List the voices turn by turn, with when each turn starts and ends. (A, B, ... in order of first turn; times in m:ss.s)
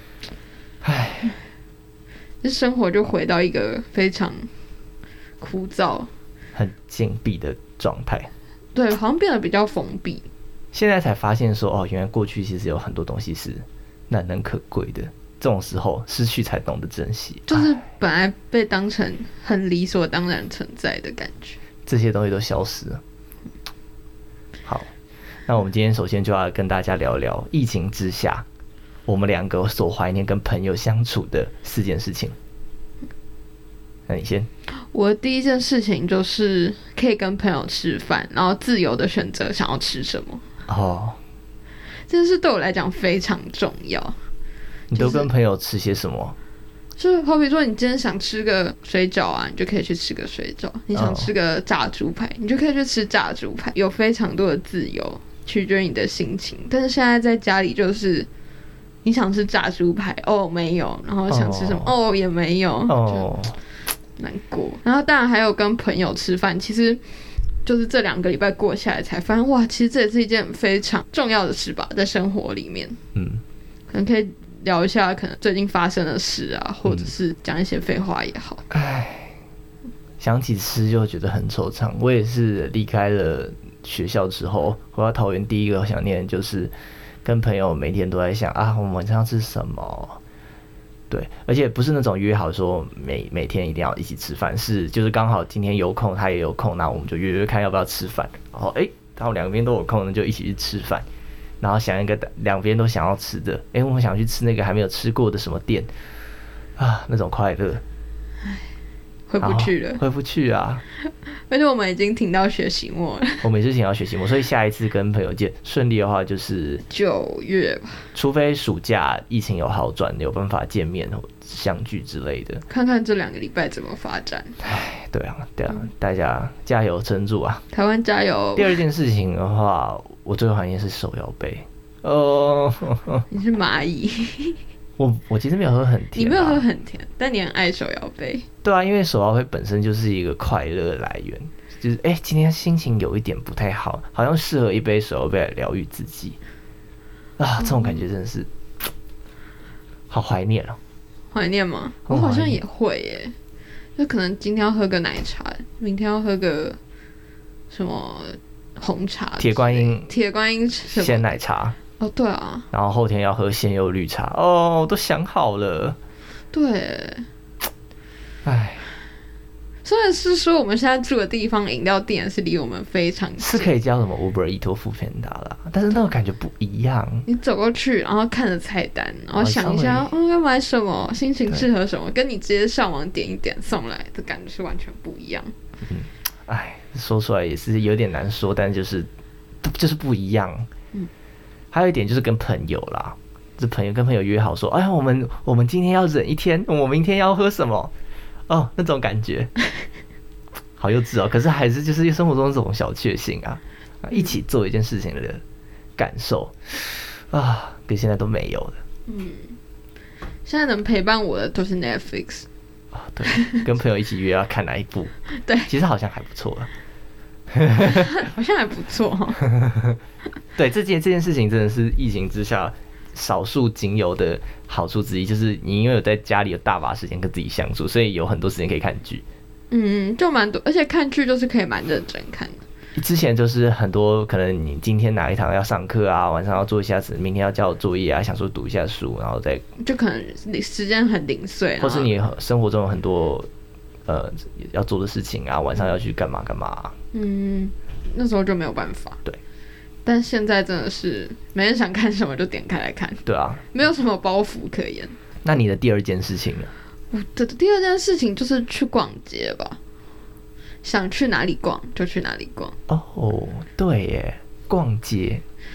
0:00.8-0:01.4 A
0:02.4-0:04.5 B
0:05.4-0:06.1 B
0:06.5-0:08.3 A
0:08.7-0:10.2 B
0:10.7-0:17.7 A
0:17.5-0:21.6 B
0:21.8-0:23.0 A
0:24.6-0:24.9 A
0:25.4-0:28.4 A
0:29.1-0:32.4 A
0:34.1-0:34.5 A
0:34.9-0:40.4 B
0:40.7-0:41.2 A
0:42.1-0:44.2 B
0:44.9-0:46.3 A
0:44.9-0:45.3 B
0:47.0-0:58.3 B
0:50.9-0:51.3 A
0:59.0-1:03.3 B
1:01.3-1:01.9 A
1:02.9-1:03.6 A
1:04.2-1:07.0 B
1:07.6-1:13.0 B
1:13.1-1:13.4 A
1:13.9-1:18.6 B
1:16.8-1:17.1 A
1:18.7-1:19.3 A
1:20.2-1:26.7 A
1:27.2-1:30.2 A
1:31.1-1:41.0 A
1:41.6-1:45.9 A
1:46.8-1:47.8 A
1:49.3-1:50.0 B
1:49.4-1:50.8 A
1:51.0-1:53.4 B
1:53.4-1:56.8 A
1:56.9-1:58.1 B
1:58.1-2:02.6 A
2:02.7-2:04.6 B
2:04.6-2:07.6 A
2:07.7-2:08.8 B
2:08.6-2:13.2 A
2:13.3-2:14.6 B
2:15.0-2:16.6 A
2:16.1-2:18.4 B
2:18.6-2:26.4 A
2:27.4-2:28.5 A
2:30.1-2:30.8 A
2:31.3-2:33.3 B
2:32.1-2:32.6 A
2:34.0-2:36.8 B
2:37.7-2:41.3 B
2:39.4-2:40.1 A
2:40.9-2:41.8 A
2:42.0-2:42.7 B
2:42.7-2:46.0 A
2:46.5-2:47.3 B
2:48.4-2:48.9 A
2:49.8-2:53.7 B
2:53.4-2:57.2 A
2:57.2-3:05.5 B
2:59.4-3:00.1 A
3:05.8-3:09.1 A
3:09.6-3:10.7 A
3:11.7-3:17.9 A
3:18.5-3:19.5 A
3:20.8-3:25.4 A
3:26.0-3:28.8 A
3:29.1-3:29.6 B
3:30.4-3:32.5 B
3:32.9-3:35.1 A
3:33.3-3:33.6 B
3:35.3-3:35.7 B
3:35.6-3:36.7 A
3:37.5-3:38.2 A
3:37.8-3:39.5 B
3:39.5-3:40.0 A
3:40.5-3:49.2 A
3:49.7-3:52.6 B
3:52.9-3:59.6 A
3:59.8-4:02.1 B
4:01.8-4:03.5 A
4:04.0-4:06.9 A
4:07.1-4:09.2 B
4:10.0-4:15.1 B
4:13.2-4:13.7 A
4:15.4-4:16.7 A
4:17.1-4:19.8 B
4:20.8-4:22.7 B
4:22.9-4:25.4 A